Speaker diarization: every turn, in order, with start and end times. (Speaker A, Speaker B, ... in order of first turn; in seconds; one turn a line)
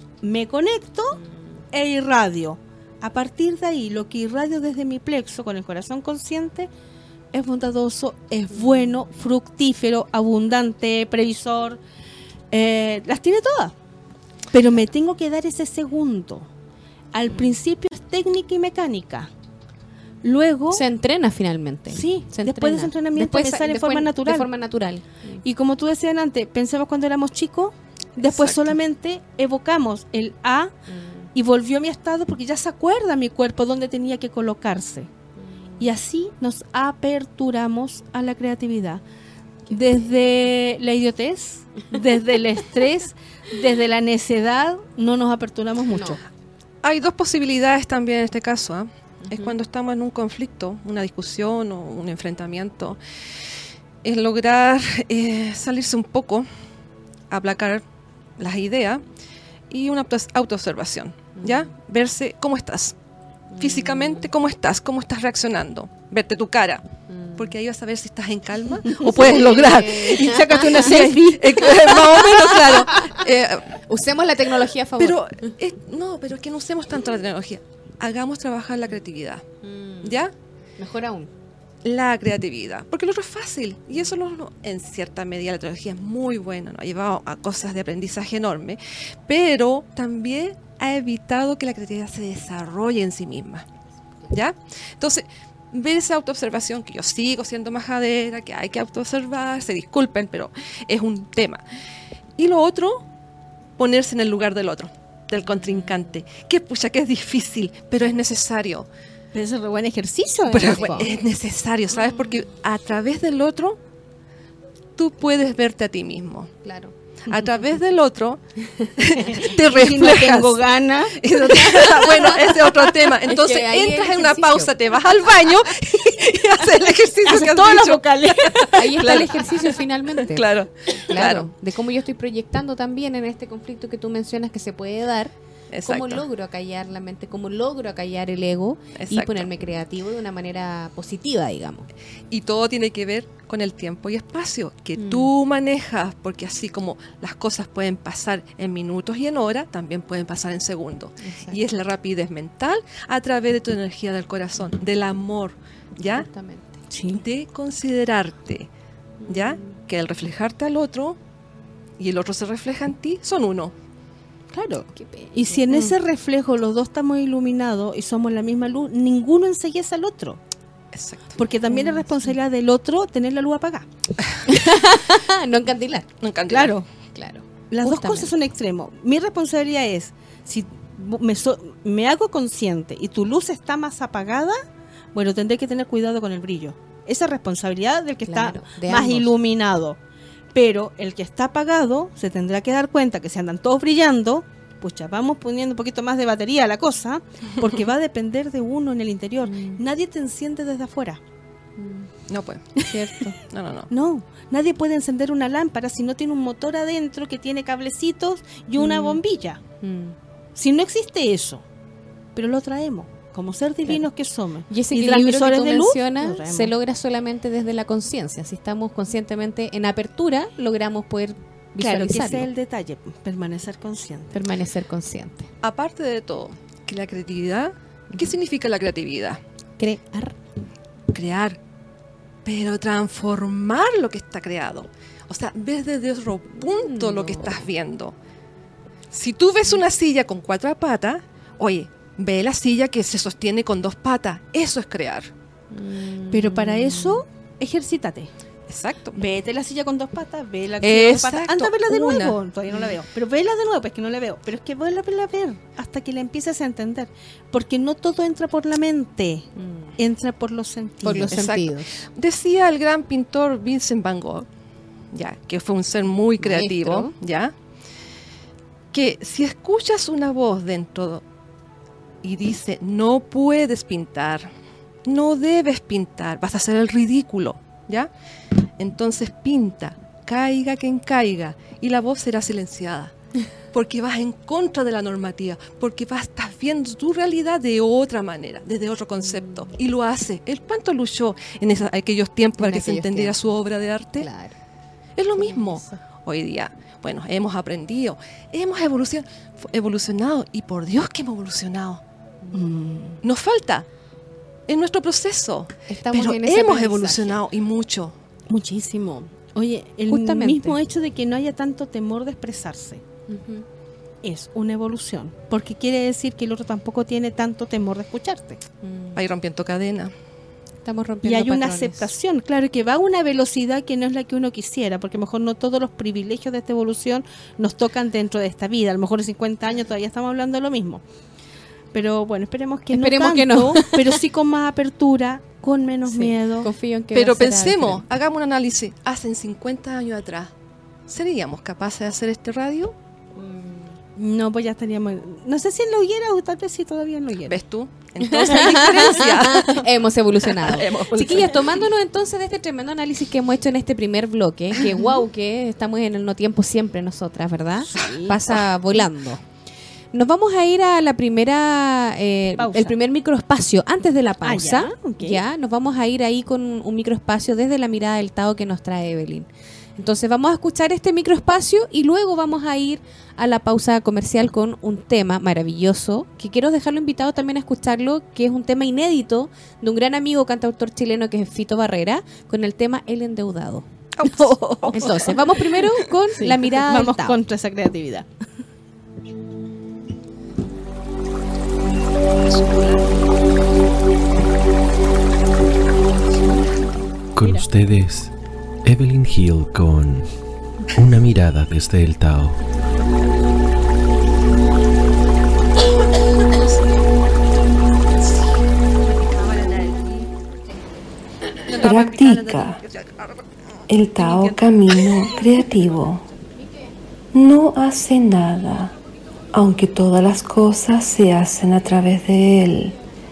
Speaker A: 0.2-1.2
Speaker B: 1.1-1.4
Speaker A: 1.7-6.7
Speaker A: 7.3-11.8
Speaker A: 12.5-13.8
Speaker A: 14.5-16.5
Speaker A: 17.1-19.3
Speaker A: 20.2-20.8
Speaker B: 20.7-25.4
Speaker A: 21.9-24.5
Speaker A: 25.4-30.7
Speaker C: 28.2-28.8
Speaker B: 30.9-31.3
Speaker A: 31.4-35.1
Speaker B: 35.5-35.8
Speaker A: 35.8-39.0
Speaker A: 39.7-46.2
Speaker C: 46.8-53.0
Speaker B: 49.3-49.5
Speaker C: 54.0-56.5
Speaker C: 57.3-57.8
Speaker C: 58.4-59.0
Speaker C: 59.7-63.0
Speaker B: 61.4-61.7
Speaker B: 63.5-64.3
Speaker C: 63.6-66.8
Speaker B: 67.1-67.5
Speaker C: 67.4-73.8
Speaker A: 69.0-72.9
Speaker B: 69.0-70.9
Speaker B: 73.9-75.5
Speaker C: 75.0-79.4
Speaker B: 79.6-80.2
Speaker C: 80.0-80.3
Speaker B: 80.8-81.3
Speaker C: 81.8-93.7
Speaker C: 94.3-101.6
Speaker C: 102.4-103.0
Speaker C: 103.8-108.9
Speaker A: 109.3-111.1
Speaker C: 110.5-113.8
Speaker C: 115.0-116.5
Speaker B: 116.6-116.9
Speaker C: 117.3-120.6
Speaker A: 119.3-122.8
Speaker C: 121.1-129.5
Speaker B: 121.8-122.6
Speaker B: 123.2-124.7
Speaker A: 125.8-129.2
Speaker B: 128.7-135.3
Speaker C: 130.2-131.5
Speaker C: 135.7-136.2
Speaker B: 135.8-141.9
Speaker C: 139.0-139.5
Speaker C: 142.3-156.3
Speaker B: 145.0-145.3
Speaker B: 151.2-151.6
Speaker B: 156.1-156.7
Speaker A: 156.9-157.2
Speaker C: 157.1-158.7
Speaker B: 159.2-159.8
Speaker C: 159.3-161.2
Speaker C: 162.0-163.7
Speaker A: 164.5-170.4
Speaker B: 164.9-165.7
Speaker C: 170.9-171.4
Speaker A: 171.4-173.9
Speaker B: 171.7-172.1
Speaker B: 174.4-176.1
Speaker C: 176.2-176.7
Speaker A: 176.5-176.9
Speaker B: 177.2-178.3
Speaker A: 177.7-184.6
Speaker A: 185.1-190.0
Speaker B: 188.3-189.3
Speaker A: 190.5-201.2
Speaker B: 199.4-199.8
Speaker B: 201.8-202.1
Speaker C: 202.3-202.8
Speaker B: 202.8-203.4
Speaker C: 203.4-203.9
Speaker A: 203.9-209.6
Speaker B: 208.8-209.2
Speaker B: 209.8-210.2
Speaker A: 210.6-211.7
Speaker A: 212.3-216.7
Speaker B: 214.7-222.5
Speaker A: 221.8-224.3
Speaker B: 224.3-225.5
Speaker C: 225.6-229.4
Speaker B: 229.8-230.4
Speaker C: 231.1-231.6
Speaker C: 232.4-238.2
Speaker B: 236.6-237.6
Speaker C: 239.1-245.3
Speaker B: 245.7-247.2
Speaker A: 246.3-248.3
Speaker C: 248.7-249.2
Speaker A: 249.2-261.3
Speaker C: 250.8-252.4
Speaker B: 259.6-259.9
Speaker B: 261.0-262.0
Speaker C: 261.2-264.5
Speaker C: 265.1-267.5
Speaker B: 266.4-267.1
Speaker C: 268.9-271.2
Speaker C: 272.2-274.5
Speaker C: 275.1-278.1
Speaker C: 278.8-283.1
Speaker C: 283.7-294.3
Speaker B: 289.2-289.7
Speaker B: 292.6-293.4
Speaker B: 294.2-294.6
Speaker C: 295.2-302.0
Speaker B: 295.4-296.0
Speaker A: 302.5-303.2
Speaker C: 303.2-303.9
Speaker C: 304.7-308.1
Speaker B: 305.9-307.4
Speaker A: 308.5-313.0
Speaker B: 310.1-310.8
Speaker B: 313.3-313.6
Speaker A: 314.2-318.6
Speaker B: 318.8-319.2
Speaker C: 319.1-320.1
Speaker B: 320.9-322.1
Speaker A: 321.2-331.0
Speaker A: 331.9-336.7
Speaker B: 332.9-334.2
Speaker B: 336.1-338.0
Speaker C: 337.1-340.5
Speaker C: 341.1-342.9
Speaker B: 343.4-343.9
Speaker A: 344.2-347.6
Speaker C: 347.5-349.8
Speaker B: 348.2-359.4
Speaker A: 348.4-349.8
Speaker C: 350.5-351.5
Speaker A: 351.1-351.6
Speaker A: 357.9-358.6
Speaker B: 360.1-383.9
Speaker A: 362.6-362.9
Speaker A: 364.4-365.4
Speaker C: 384.2-385.4
Speaker A: 384.2-385.4
Speaker B: 384.9-387.4
Speaker A: 386.4-388.3
Speaker C: 392.4-393.3
Speaker C: 396.3-396.7
Speaker D: 397.4-398.3
Speaker A: 397.4-397.7
Speaker D: 398.8-400.3
Speaker D: 400.9-402.6
Speaker C: 406.0-406.8
Speaker C: 408.1-408.5
Speaker C: 409.1-410.3
Speaker C: 411.6-413.4
Speaker E: 411.7-412.8
Speaker E: 413.9-416.2
Speaker C: 414.1-415.4
Speaker E: 417.3-418.9
Speaker E: 419.5-422.9